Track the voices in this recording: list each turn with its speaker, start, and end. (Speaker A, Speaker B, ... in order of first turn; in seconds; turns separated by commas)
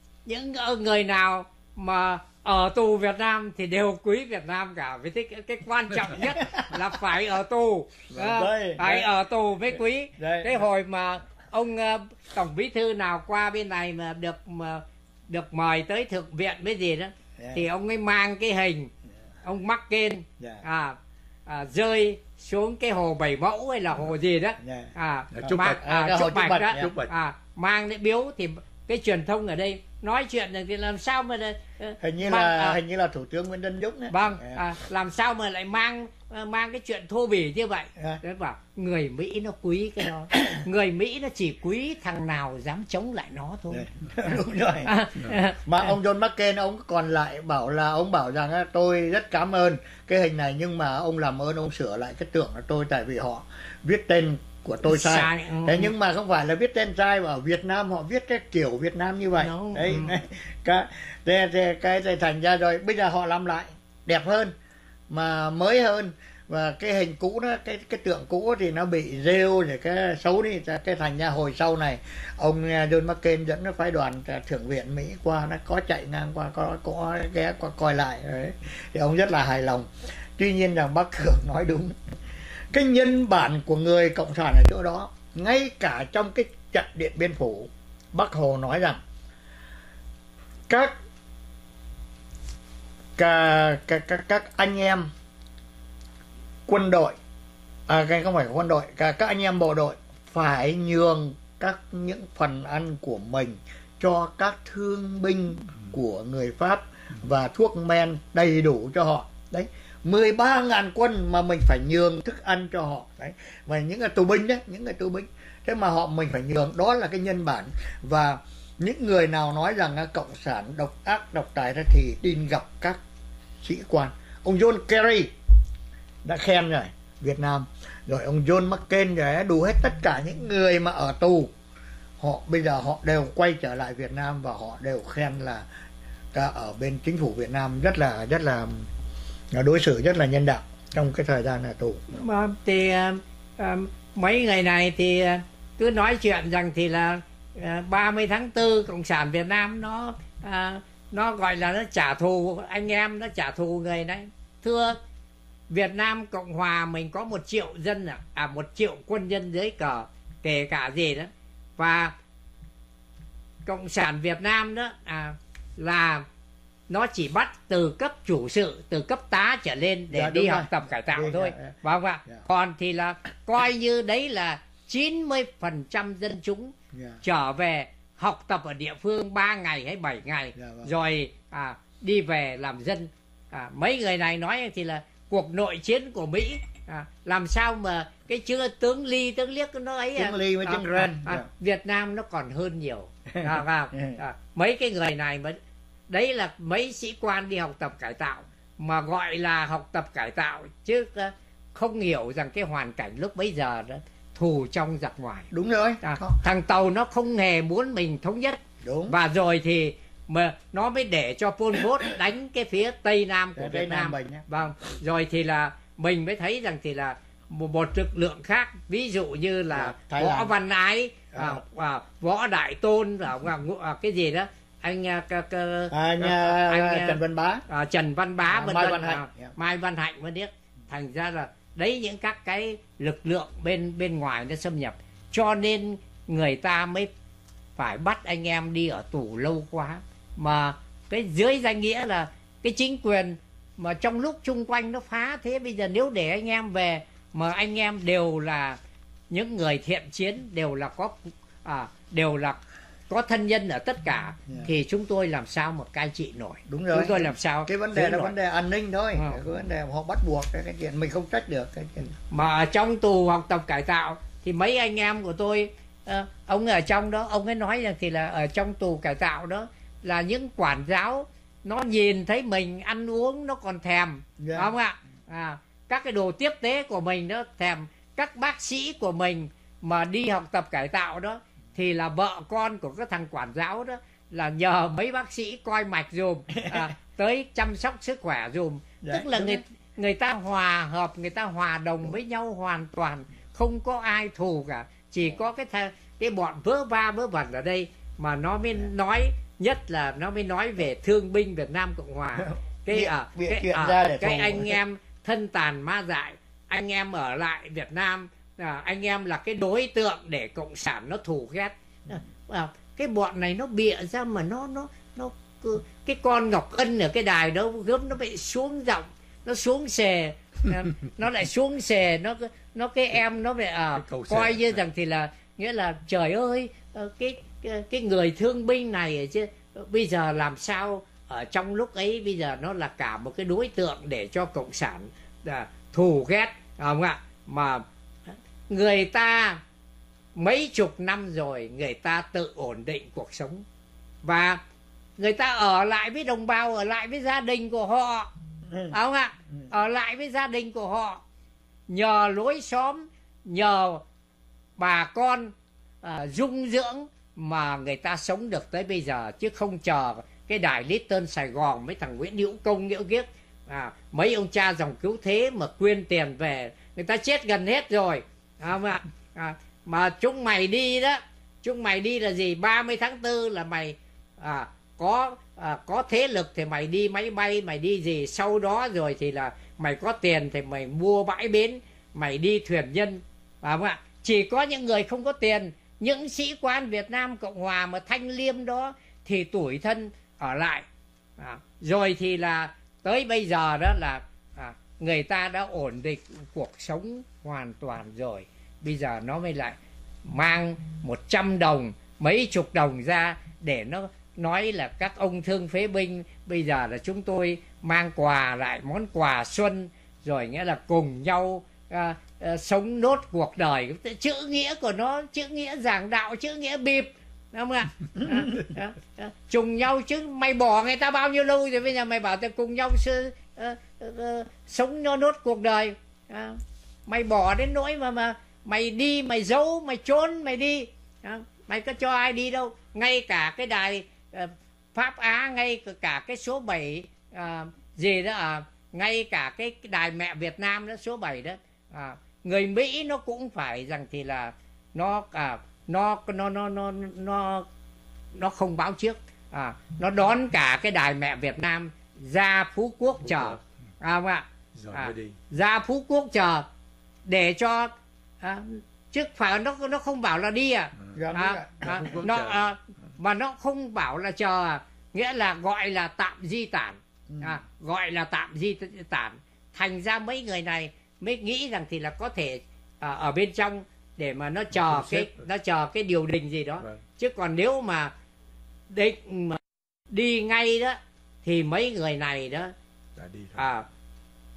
Speaker A: 0.3-18.9, Speaker B: 6.4-6.8, Speaker B: 8.1-9.1, Speaker B: 10.2-10.6, Speaker A: 19.4-32.8, Speaker B: 24.6-24.9, Speaker B: 25.4-26.9, Speaker C: 26.8-27.1, Speaker B: 32.0-34.6, Speaker A: 34.1-43.9, Speaker B: 43.7-44.9, Speaker A: 44.9-45.9, Speaker B: 45.6-64.5, Speaker A: 54.9-55.9, Speaker A: 59.4-60.2, Speaker B: 65.1-82.0, Speaker B: 82.7-89.0, Speaker B: 93.2-95.1, Speaker B: 96.7-97.2, Speaker B: 97.9-123.0, Speaker B: 123.6-125.3, Speaker B: 126.2-131.5, Speaker B: 132.2-135.7, Speaker B: 136.3-138.9, Speaker B: 139.5-142.2, Speaker A: 142.1-155.0, Speaker A: 155.7-162.2, Speaker A: 163.7-166.2, Speaker A: 166.9-195.6, Speaker B: 170.1-171.8, Speaker B: 176.9-177.2, Speaker B: 180.6-180.9, Speaker B: 190.2-191.5, Speaker B: 193.3-194.2, Speaker A: 196.1-205.5, Speaker B: 205.5-206.4, Speaker A: 206.0-237.1, Speaker B: 208.8-209.2, Speaker B: 213.6-214.5, Speaker B: 219.7-220.5, Speaker B: 221.3-221.6, Speaker B: 225.9-227.7, Speaker B: 228.5-229.5, Speaker A: 237.8-248.8, Speaker A: 249.3-258.4, Speaker B: 256.7-262.1, Speaker A: 262.3-337.9, Speaker B: 274.4-274.7, Speaker B: 286.6-286.9, Speaker B: 289.0-289.6, Speaker B: 302.4-304.8, Speaker C: 324.1-324.6, Speaker A: 338.7-339.6, Speaker A: 340.4-343.6, Speaker A: 344.2-344.6, Speaker A: 345.2-348.3, Speaker B: 348.7-349.0, Speaker A: 348.9-351.2, Speaker A: 351.9-354.0, Speaker A: 354.8-390.9, Speaker A: 391.4-447.7, Speaker A: 448.3-456.7, Speaker C: 454.8-455.4, Speaker A: 457.3-478.1, Speaker B: 461.1-462.1, Speaker C: 462.2-462.6, Speaker B: 467.3-467.6, Speaker A: 478.9-482.7, Speaker C: 483.2-483.6, Speaker A: 483.5-483.9